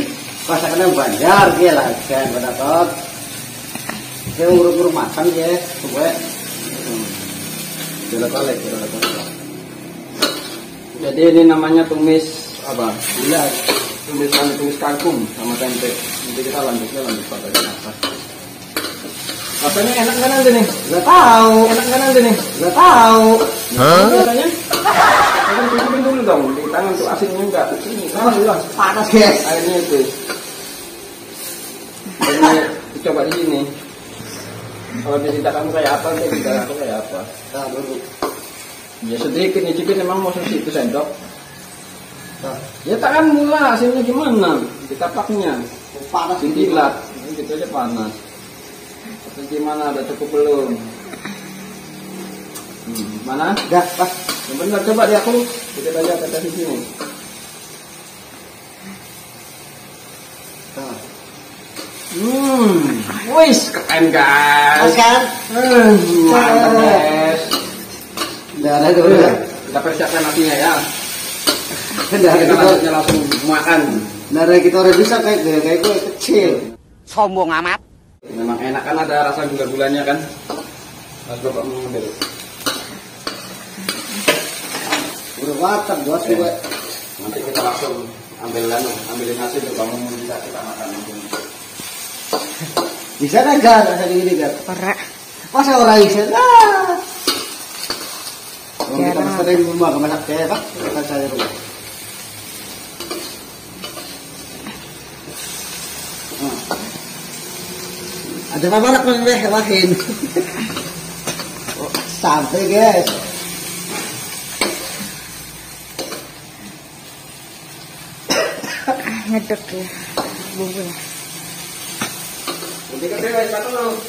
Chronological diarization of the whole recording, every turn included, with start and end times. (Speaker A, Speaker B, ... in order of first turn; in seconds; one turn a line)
Speaker A: 0.5-2.9
Speaker A: 4.3-6.2
Speaker B: 6.8-7.1
Speaker B: 8.1-9.3
Speaker B: 10.9-13.0
Speaker A: 13.2-13.6
Speaker B: 14.1-18.0
Speaker B: 19.6-20.7
Speaker A: 20.9-21.7
Speaker B: 21.6-22.4
Speaker A: 22.5-23.4
Speaker B: 23.7-24.5
Speaker B: 25.3-28.7
Speaker A: 28.1-29.4
Speaker B: 29.4-30.1
Speaker B: 32.2-33.7
Speaker B: 35.0-37.3
Speaker A: 37.5-38.0
Speaker B: 39.0-41.1
Speaker B: 42.9-45.6
Speaker A: 45.9-46.9
Speaker B: 46.4-48.1
Speaker B: 49.2-50.9
Speaker B: 52.9-53.6
Speaker A: 53.7-54.1
Speaker B: 54.5-56.8
Speaker A: 60.8-61.0
Speaker B: 62.1-67.5
Speaker A: 64.8-65.5
Speaker A: 66.2-67.1
Speaker A: 68.5-69.4
Speaker B: 69.0-70.8
Speaker A: 71.9-72.8
Speaker B: 72.2-74.0
Speaker A: 74.3-77.8
Speaker B: 78.3-80.2
Speaker B: 81.3-82.2
Speaker A: 85.4-86.5
Speaker B: 86.2-86.5
Speaker B: 87.2-91.3
Speaker A: 93.2-94.7
Speaker C: 94.7-95.0
Speaker A: 95.5-97.0
Speaker A: 98.9-101.5
Speaker C: 99.0-99.5
Speaker A: 108.5-110.6
Speaker A: 111.8-113.2
Speaker C: 119.0-121.0
Speaker B: 122.9-124.0